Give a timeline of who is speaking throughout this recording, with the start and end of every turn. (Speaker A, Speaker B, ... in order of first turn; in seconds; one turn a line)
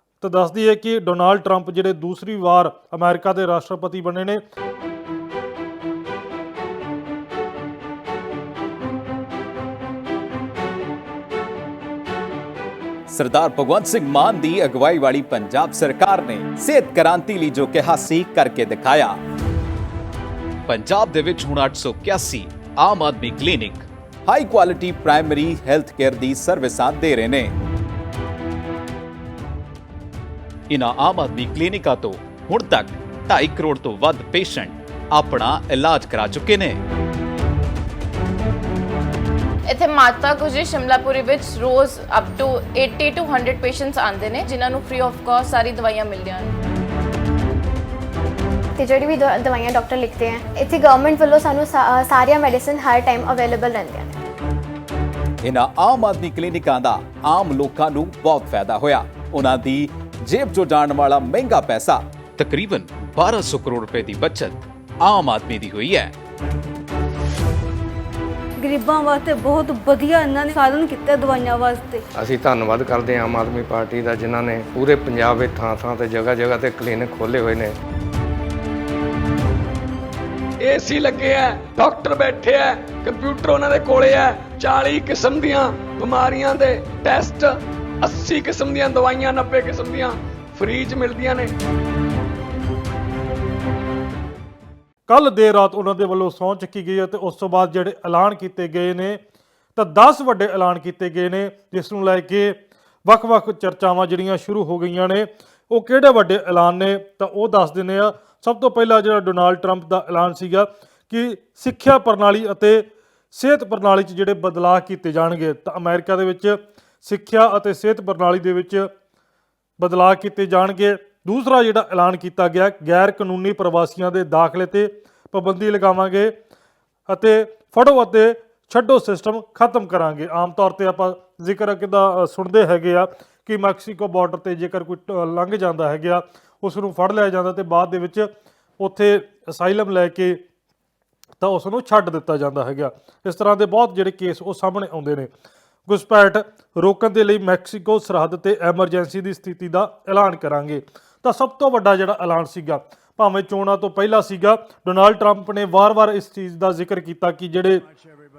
Speaker A: 0.2-4.4
Speaker B: 13.1-19.2
Speaker B: 20.7-27.5
Speaker B: 30.7-36.8
Speaker C: 39.7-46.5
Speaker D: 48.8-54.2
Speaker B: 55.5-66.1
Speaker E: 68.6-72.0
Speaker F: 72.2-77.7
Speaker G: 80.6-91.5
Speaker A: 95.1-99.2
Speaker A: 99.8-118.9
Speaker A: 119.8-126.3
Speaker A: 127.1-140.4
Speaker A: 141.4-145.3
Speaker A: 145.9-157.8